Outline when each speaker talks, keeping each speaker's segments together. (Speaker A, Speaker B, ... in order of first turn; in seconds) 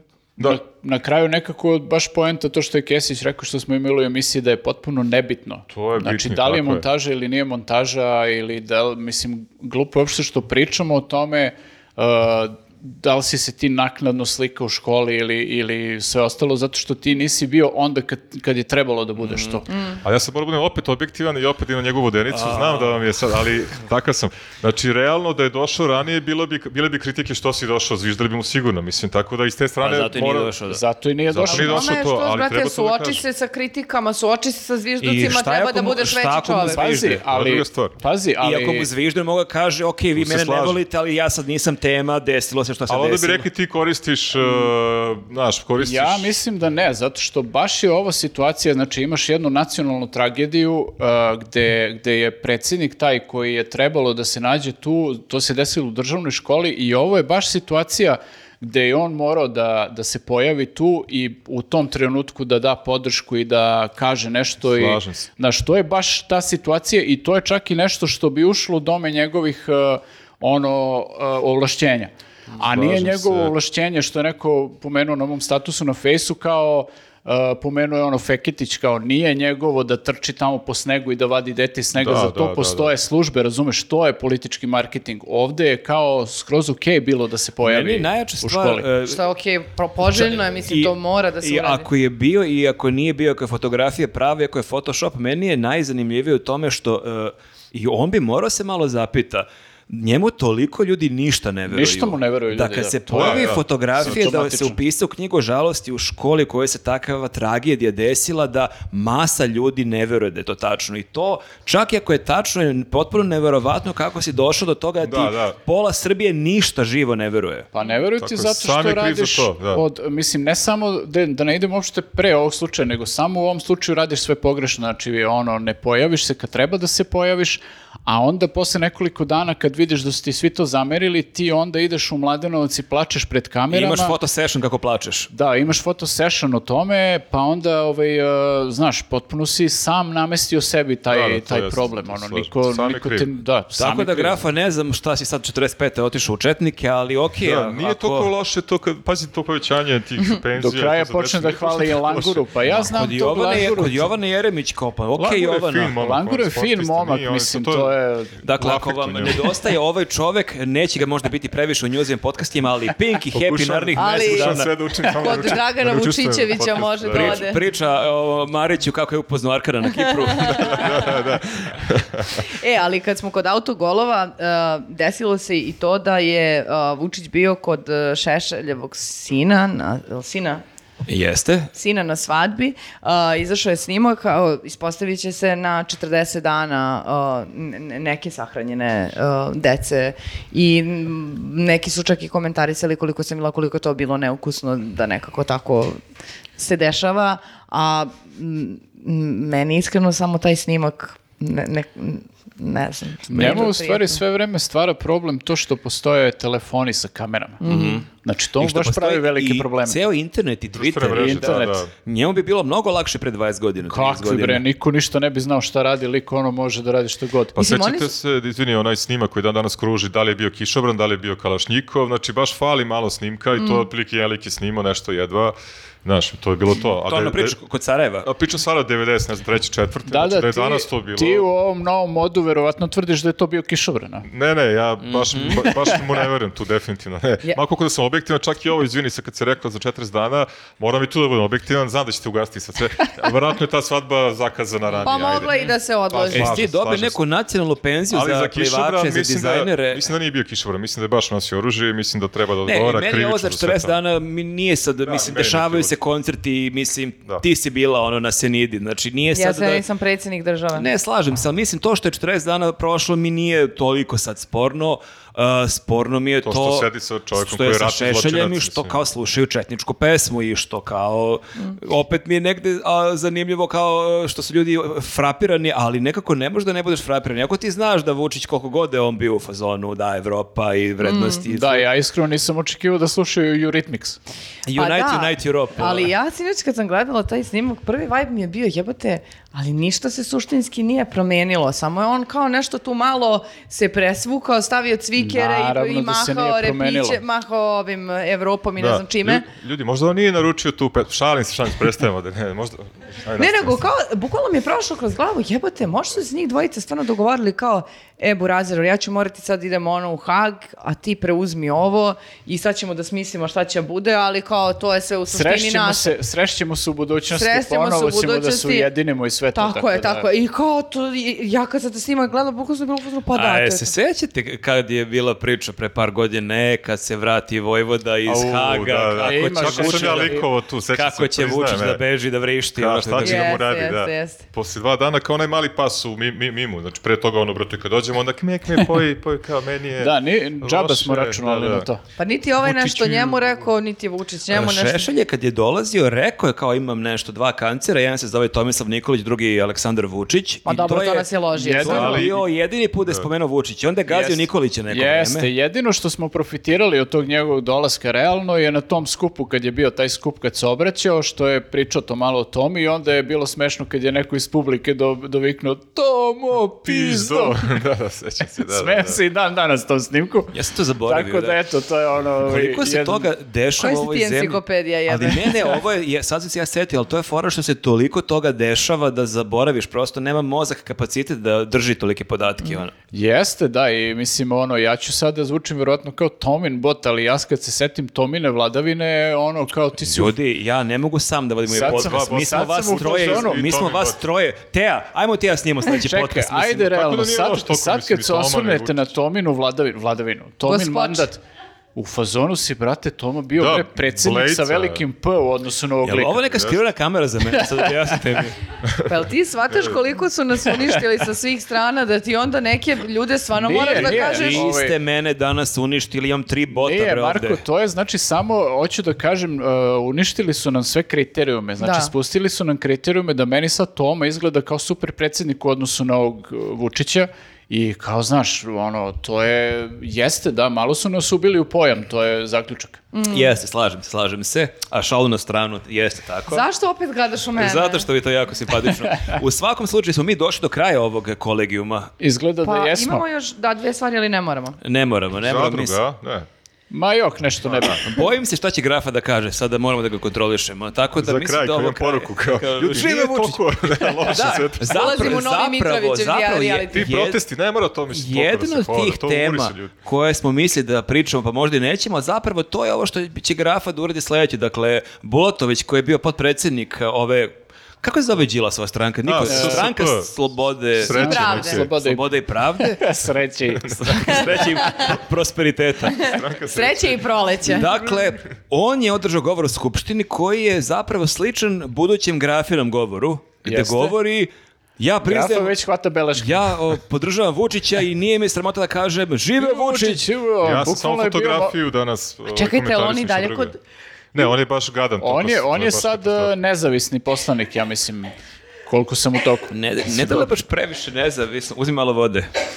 Speaker A: 0.4-19.8, 30.7-31.9, 36.7-38.9, 44.5-44.7, 45.8-88.8, 101.7-104.8, 117.7-134.2, 135.3-144.4, 150.6-154.1, 156.0-158.3, 203.3-207.6, 208.1-210.0, 211.1-211.8, 213.9-217.6, 230.1-234.3, 235.6-236.1, 281.5-284.2, 295.2-297.2, 315.3-320.3, 329.2-330.5, 340.0-342.0, 351.6-352.4, 354.1-367.6, 368.6-373.3, 383.1-390.3, 391.7-393.6, 395.9-401.4, 401.9-406.4, 407.6-407.9, 413.6-414.9, 416.7-433.0, 442.2-443.2, 446.9-448.1, 469.5-469.9, 471.0-475.2, 483.6-484.1, 485.2-486.7, 489.6-491.7, 495.2-498.3, 498.9-500.5
Speaker B: 5.7-6.8, 20.0-30.6, 31.3-33.2, 37.2-38.0, 40.1-40.8, 42.9-46.4, 64.6-65.3, 72.5-73.5, 81.9-82.9, 103.1-104.2, 115.0-115.5, 118.2-119.8, 141.1-143.3, 147.4-153.1, 155.2-159.6, 163.3-167.5, 170.7-172.5, 210.7-211.9, 217.6-227.6, 228.2-231.5, 234.3-245.5, 246.1-247.2, 248.1-253.9, 255.0-255.9, 266.4-269.0, 298.8-303.8, 328.3-332.0, 332.7-341.9, 342.6-343.4, 351.9-352.4, 366.8-369.2, 391.7-394.2, 396.8-399.1, 403.6-405.1, 406.4-406.8, 408.8-410.0, 445.4-446.5, 447.7-448.0, 451.2-455.2, 456.9-459.9, 469.2-470.3, 471.0-471.9, 473.7-474.5, 476.1-477.2, 490.6-493.7, 494.3-496.5
Speaker C: 19.2-19.6, 22.3-23.1, 29.8-30.8, 35.0-37.2, 38.4-43.5, 87.6-89.2, 90.1-117.7, 133.7-135.3, 143.8-148.3, 152.9-155.9, 158.4-164.7, 167.1-171.0, 181.1-181.7, 203.3-203.7, 207.6-208.1, 208.6-214.6, 227.0-228.3, 235.0-235.7, 244.9-245.7, 246.3-250.1, 252.6-259.8, 260.7-281.9, 284.7-286.1, 323.3-333.6, 344.5-355.5, 370.5-371.6, 372.4-382.9, 390.1-396.9, 406.0-408.6, 413.8-417.6, 433.3-436.6, 437.6-442.1, 444.8-446.0, 448.0-457.4, 458.1-473.1, 474.1-476.3, 477.6-485.8, 486.4-490.3, 499.7-502.5
Speaker D: 31.4-36.9, 89.0-91.9, 163.9-167.6, 170.1-171.1, 172.4-180.6, 181.7-196.0, 196.6-204.2, 207.6-208.0, 217.6-218.1, 223.6-223.8, 245.0-246.6, 259.3-260.9, 281.0-281.4, 284.7-299.5, 303.4-316.1, 317.3-318.9, 319.5-323.9, 333.2-334.4, 342.2-345.1, 350.6-352.3, 373.8-375.8, 400.6-401.3, 409.1-414.7, 421.8-422.1, 433.1-433.5, 436.5-438.1, 442.6-444.8, 454.8-457.1, 471.2-471.8, 474.3-475.1, 476.1-478.2, 492.5-493.8